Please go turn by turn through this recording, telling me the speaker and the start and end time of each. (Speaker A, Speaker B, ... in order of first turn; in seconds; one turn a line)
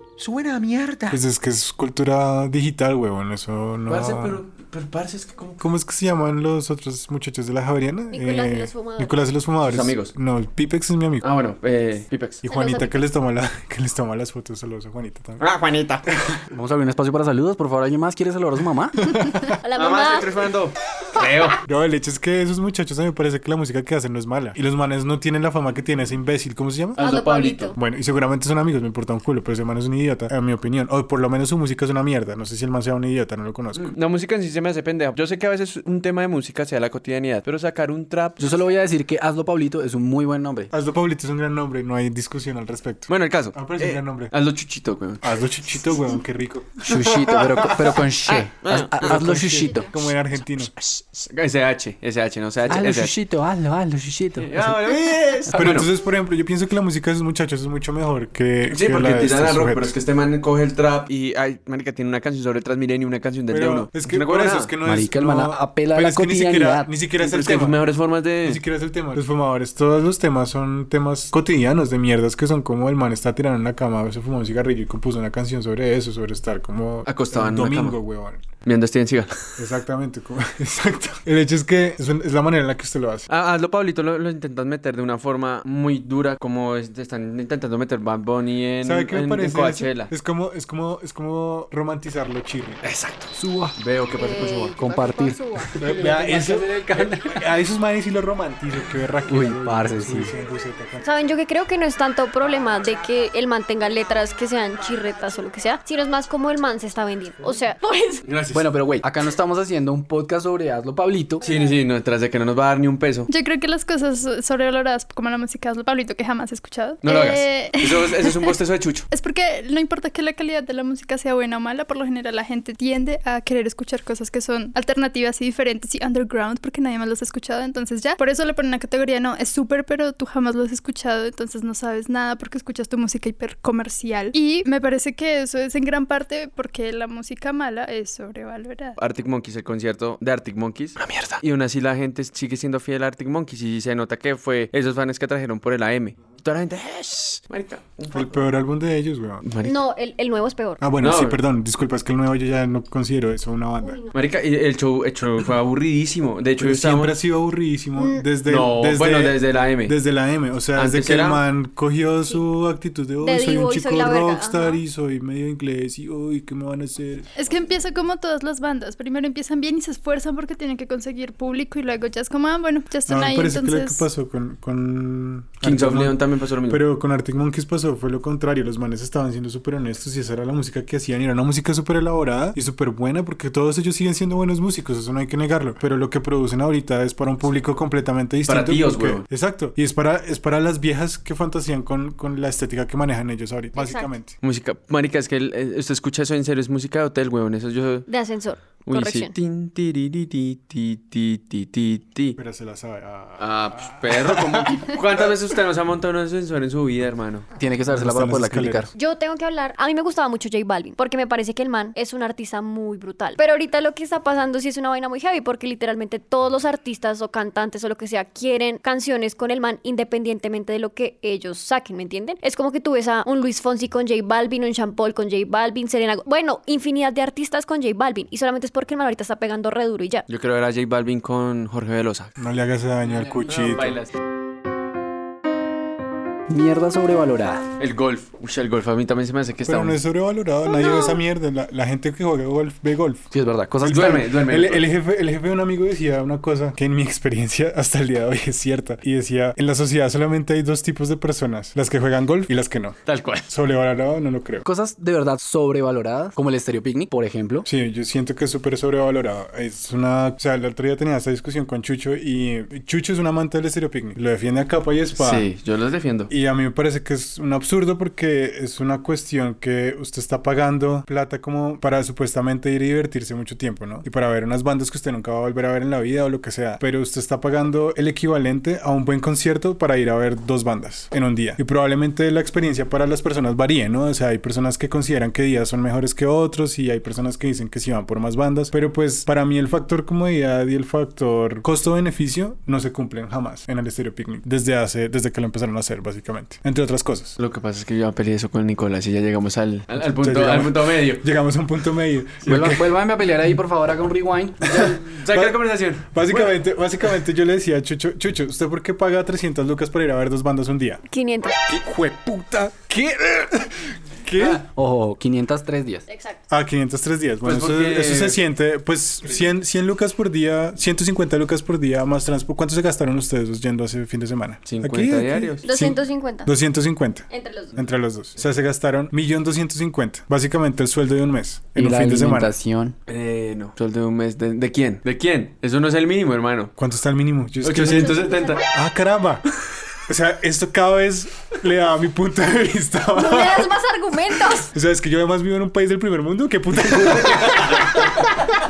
Speaker A: 0.2-1.2
Speaker B: 1.1-4.4
Speaker A: 3.9-5.6
Speaker B: 5.6-11.2
Speaker C: 8.1-9.1
Speaker A: 9.6-10.1
Speaker A: 11.2-12.4
Speaker B: 12.4-15.4
Speaker C: 12.5-13.1
Speaker A: 15.4-16.0
Speaker D: 16.5-19.0
Speaker B: 19.1-19.5
Speaker C: 19.6-20.3
Speaker A: 19.8-21.6
Speaker B: 21.6-27.1
Speaker A: 27.0-27.7
Speaker C: 27.0-27.8
Speaker B: 27.7-33.9
Speaker A: 33.7-38.6
Speaker D: 38.4-40.7
Speaker B: 40.7-44.3
Speaker A: 43.1-45.2
Speaker B: 45.2-48.0
Speaker D: 46.8-49.9
Speaker A: 48.2-49.6
Speaker B: 49.0-50.7
Speaker A: 50.7-53.1
Speaker D: 52.6-55.5
Speaker A: 54.4-55.9
Speaker B: 55.5-59.9
Speaker A: 58.7-64.7
Speaker B: 63.5-67.8
Speaker D: 64.8-66.9
Speaker A: 67.2-68.6
Speaker B: 68.4-78.4
Speaker A: 77.0-78.0
Speaker A: 78.6-79.5
Speaker B: 79.6-83.3
Speaker A: 83.3-90.1
Speaker B: 88.8-92.8
Speaker A: 92.8-94.8
Speaker D: 93.3-96.4
Speaker A: 95.8-97.2
Speaker B: 95.8-101.0
Speaker D: 99.3-100.3
Speaker C: 101.0-108.2
Speaker A: 108.2-108.7
Speaker D: 108.5-111.4
Speaker A: 111.4-113.3
Speaker E: 113.3-118.5
Speaker A: 117.0-119.1
Speaker E: 119.1-139.0
Speaker A: 139.0-148.4
Speaker B: 148.1-149.4
Speaker A: 149.4-149.8
Speaker C: 149.6-150.8
Speaker B: 150.8-154.0
Speaker A: 151.0-151.4
Speaker C: 153.8-154.1
Speaker A: 154.1-157.1
Speaker B: 156.6-167.3
Speaker C: 158.0-158.2
Speaker A: 158.4-159.9
Speaker A: 160.7-161.4
Speaker C: 163.2-164.8
Speaker E: 167.3-174.1
Speaker B: 173.1-194.3
Speaker A: 175.6-176.8
Speaker A: 188.4-189.2
Speaker C: 193.7-194.1
Speaker A: 194.4-198.1
Speaker C: 198.1-199.3
Speaker A: 198.8-202.4
Speaker B: 202.3-205.2
Speaker A: 203.4-207.4
Speaker D: 207.5-208.9
Speaker B: 207.9-208.9
Speaker C: 208.9-230.2
Speaker A: 230.3-232.3
Speaker B: 232.4-234.0
Speaker A: 233.4-234.1
Speaker D: 236.5-237.7
Speaker A: 237.8-240.0
Speaker B: 239.7-243.3
Speaker C: 240.6-241.2
Speaker D: 243.3-244.3
Speaker B: 243.8-254.7
Speaker A: 243.8-244.8
Speaker A: 253.1-253.5
Speaker D: 254.7-257.7
Speaker B: 257.6-265.5
Speaker A: 265.1-266.3
Speaker B: 266.3-297.4
Speaker A: 297.4-301.2
Speaker B: 300.0-302.8
Speaker D: 302.4-304.8
Speaker A: 304.6-306.6
Speaker B: 304.8-311.0
Speaker C: 311.1-311.5
Speaker B: 311.6-314.6
Speaker D: 314.4-316.0
Speaker C: 316.1-316.4
Speaker B: 316.5-332.5
Speaker A: 317.4-318.4
Speaker A: 324.6-325.6
Speaker C: 325.6-326.5
Speaker C: 327.3-327.8
Speaker D: 331.8-332.9
Speaker A: 333.1-336.7
Speaker B: 336.8-339.4
Speaker A: 337.6-338.6
Speaker C: 337.9-338.5
Speaker B: 340.1-343.7
Speaker C: 343.1-344.7
Speaker B: 344.7-348.2
Speaker A: 347.0-348.0